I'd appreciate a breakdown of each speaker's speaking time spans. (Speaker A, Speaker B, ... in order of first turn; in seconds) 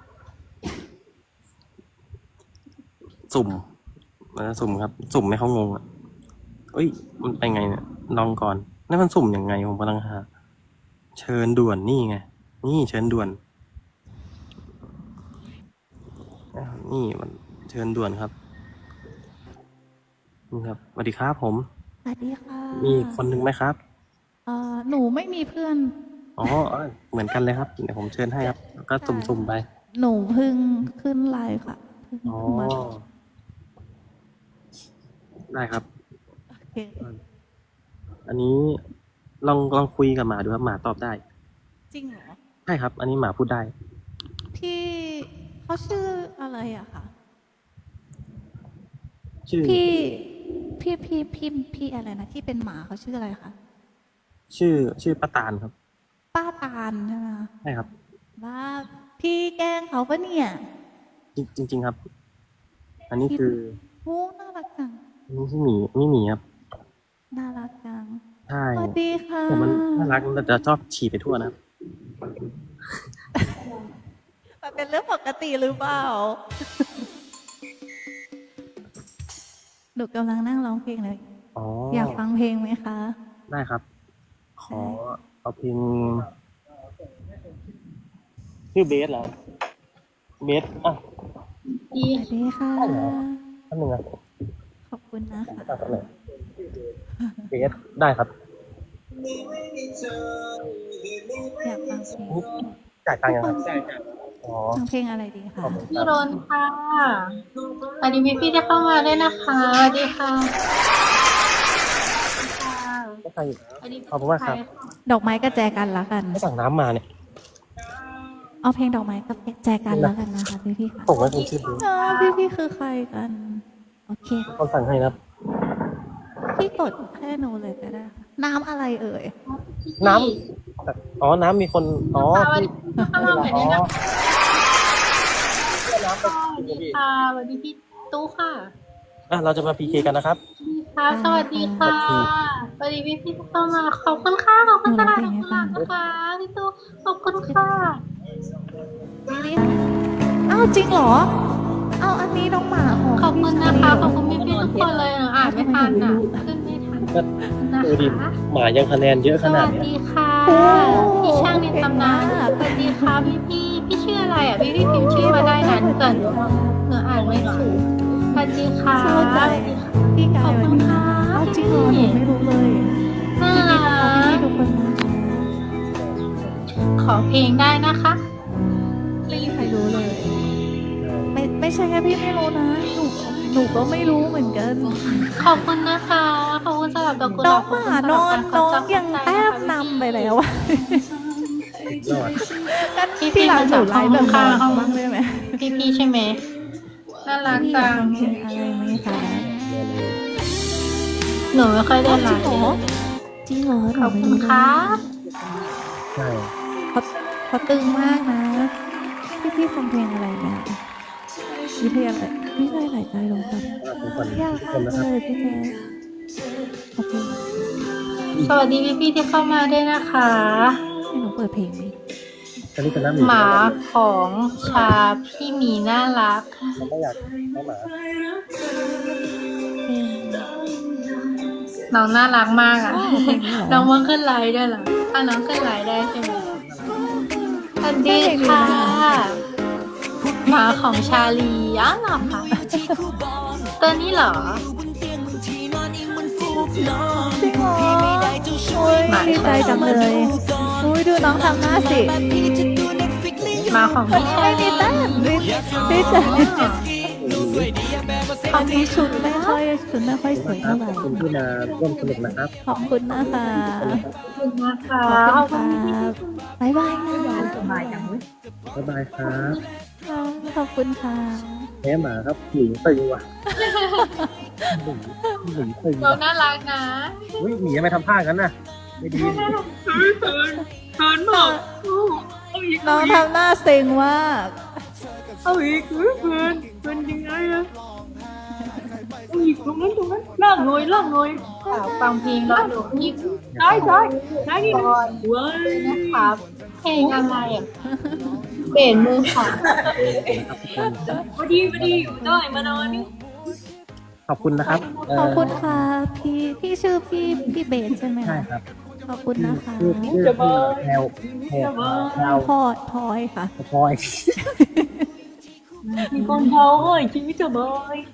Speaker A: 3.3-3.6, 4.3-5.8, 6.7-10.3, 11.2-13.4, 16.5-18.3, 20.5-21.7, 22.8-23.8, 26.4-29.6, 32.3-33.0, 35.5-35.9, 38.3-38.8, 39.4-41.2, 42.7-43.7, 49.5-49.8, 54.5-55.7, 61.4-62.0, 63.1-63.8, 65.3-66.4, 68.5-69.0, 69.5-71.5, 81.6-82.2, 83.5-83.8, 84.6-86.3, 88.7-89.3, 90.4-91.0, 92.8-93.2, 93.7-94.0, 95.5-96.1, 97.5-98.3, 103.0-103.8, 104.4-104.8, 105.6-106.2, 113.2-113.6, 114.1-114.6, 116.3-117.0, 119.9-120.2, 121.1-121.8, 124.5-125.2, 130.0-133.9, 135.8-137.0, 139.3-140.4, 141.8-142.3, 157.8-159.9, 166.2-166.4, 176.0-176.4, 181.0-181.3, 191.9-192.4, 199.0-200.2, 206.2-206.5, 213.8-215.1, 222.8-223.8, 226.8-227.9, 236.5-237.0, 253.4-253.7, 257.1-257.7, 260.3-262.5, 263.5-264.1, 268.7-269.6, 271.8-273.2, 274.7-276.2, 277.4-279.6, 293.5-294.9, 299.4-302.2, 304.3-305.8, 308.2-308.6, 309.4-312.5, 313.6-314.4
Speaker B: 22.1-23.2, 24.5-25.9, 28.4-32.8, 36.5-37.0, 41.9-42.4, 44.5-47.1, 49.6-53.5, 56.3-57.5, 58.4-60.6, 64.0-65.0, 67.3-68.2, 68.8-70.2, 74.6-76.8, 80.0-81.2, 81.9-83.2, 84.7-85.0, 92.1-93.4, 94.9-96.0, 97.2-97.5, 101.6-102.7, 103.2-103.8, 104.8-105.9, 115.1-116.4, 118.6-121.1, 121.7-124.6, 126.5-129.3, 133.0-133.6, 141.1-142.0, 144.9-145.8, 149.3-149.8, 150.5-151.3, 152.0-154.2, 155.4-156.4, 160.5-163.3, 164.9-166.8, 169.0-172.9, 173.5-175.5, 179.3-180.4, 181.3-185.4, 187.4-191.1, 192.3-195.6, 197.5-199.5, 202.1-202.8, 203.5-205.1, 206.9-208.7, 209.3-210.8, 211.8-213.8, 214.3-215.8, 217.0-217.4, 221.1-221.9, 229.9-230.5, 232.9-233.9, 237.9-239.1, 242.6-243.0, 247.4-252.2, 253.7-256.8, 258.5-261.2, 262.7-264.1, 265.1-268.1, 270.1-271.7, 273.5-274.8, 281.3-281.6, 282.8-284.6, 288.7-289.1, 297.9-298.3, 302.2-303.1, 305.1-308.5, 309.1-310.2, 312.2-313.5, 314.4-315.1, 316.1-316.5
Speaker C: 91.8-92.3, 105.9-107.4, 108.0-110.5, 112.4-113.2, 113.8-115.0, 121.1-122.5, 129.5-130.4, 132.1-133.8, 136.2-138.7, 140.6-148.0, 153.2-158.4, 159.4-167.8, 168.3-172.2, 173.4-174.4, 177.0-178.2, 185.4-189.9, 193.2-195.0, 195.6-196.4, 197.3-198.4, 201.5-202.8, 204.0-205.0, 218.4-220.8, 223.2-226.7, 231.9-236.5, 237.8-239.4, 240.4-242.6, 243.8-244.7, 249.1-250.7, 253.7-256.9, 258.5-259.6, 261.0-261.4, 264.3-265.9, 269.3-269.6, 273.6-274.1, 276.0-277.4, 279.1-279.6, 291.7-293.2, 293.8-295.2, 295.7-297.7, 298.7-299.6
Speaker D: 153.9-155.1, 165.1-165.4, 179.3-180.4, 183.2-184.0, 184.8-185.7, 189.9-192.8, 194.1-194.8, 198.2-199.2, 205.2-206.0, 212.4-212.7, 215.2-216.8, 220.4-221.2, 224.6-224.9, 227.2-229.8, 230.3-231.8, 237.0-237.6, 246.3-247.3, 249.5-250.7, 255.6-256.5, 262.8-263.6, 265.8-268.2, 279.2-283.3, 285.4-287.7, 289.3-291.9, 292.5-296.4, 297.0-297.4, 298.5-303.1, 304.6-305.8, 307.2-308.0, 310.0-312.5, 315.8-318.1